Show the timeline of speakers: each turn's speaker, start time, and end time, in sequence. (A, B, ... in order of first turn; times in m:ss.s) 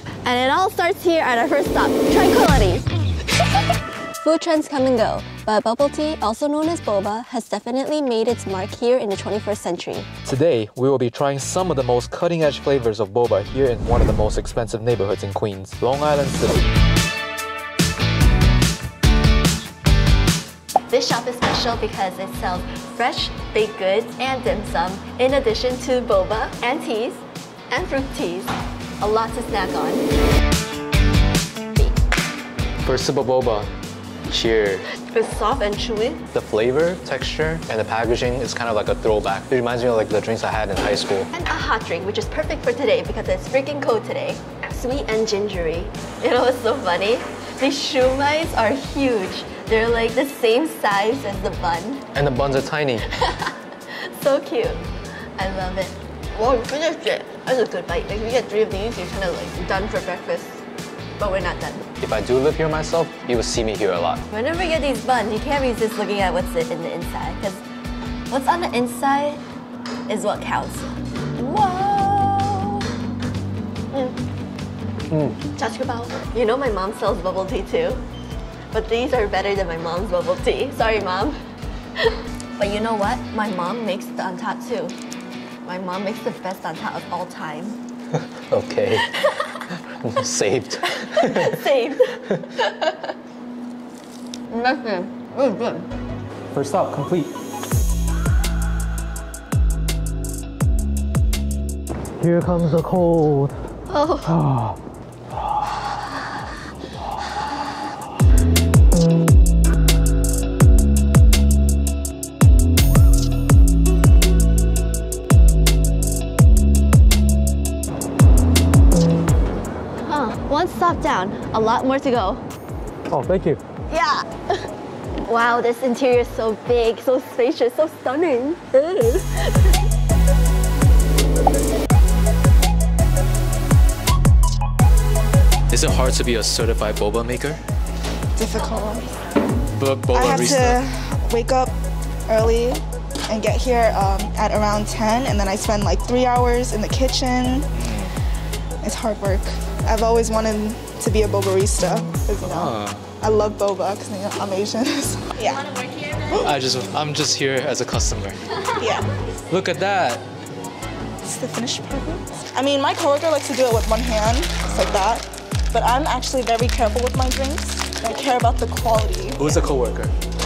0:00.2-0:02.9 A
0:04.2-0:10.1 A
0:10.2-0:16.6 B
0:20.9-0:30.1 A
0:32.8-0:33.7 B
0:34.3-0:34.9 B
0:35.1-0:36.2 A
0:36.3-0:41.3 B
0:41.3-0:52.0 A
0:52.1-0:53.1 B
0:53.1-0:54.8 A
0:55.4-1:00.6 A
1:01.2-1:01.9 A
1:02.0-1:04.2 B
1:04.3-1:07.6 A
1:08.3-1:09.4 A
1:10.1-1:12.8 A
1:13.9-1:14.2 A
1:15.1-1:15.4 B
1:15.6-1:18.0 A
1:18.7-1:21.4 A
1:22.0-1:25.0 A
1:25.6-1:27.8 A
1:28.5-1:29.1 B
1:29.0-1:29.6 A
1:29.8-1:31.6 B
1:30.9-1:33.1 A
1:34.5-1:35.9 A
1:36.5-1:37.3 B
1:42.2-1:43.6 B
1:43.9-1:44.4 A
1:44.3-1:44.8 B
2:00.0-2:02.4 A
2:03.1-2:03.6 B
2:03.9-2:04.6 A
2:05.3-2:09.8 A
2:15.7-2:17.6 B
2:18.4-2:19.1 C
2:19.7-2:20.8 B
2:20.1-2:21.7 C
2:22.3-2:27.7 C
2:27.7-2:28.1 B
2:28.8-2:35.6 C
2:32.4-2:33.1 B
2:35.4-2:36.5 A
2:36.4-2:38.4 B
2:38.6-2:38.8 A
2:38.8-2:39.0 C
2:39.5-2:40.2 B
2:41.2-2:49.6 C
2:44.6-2:45.0 B
2:49.4-2:50.1 B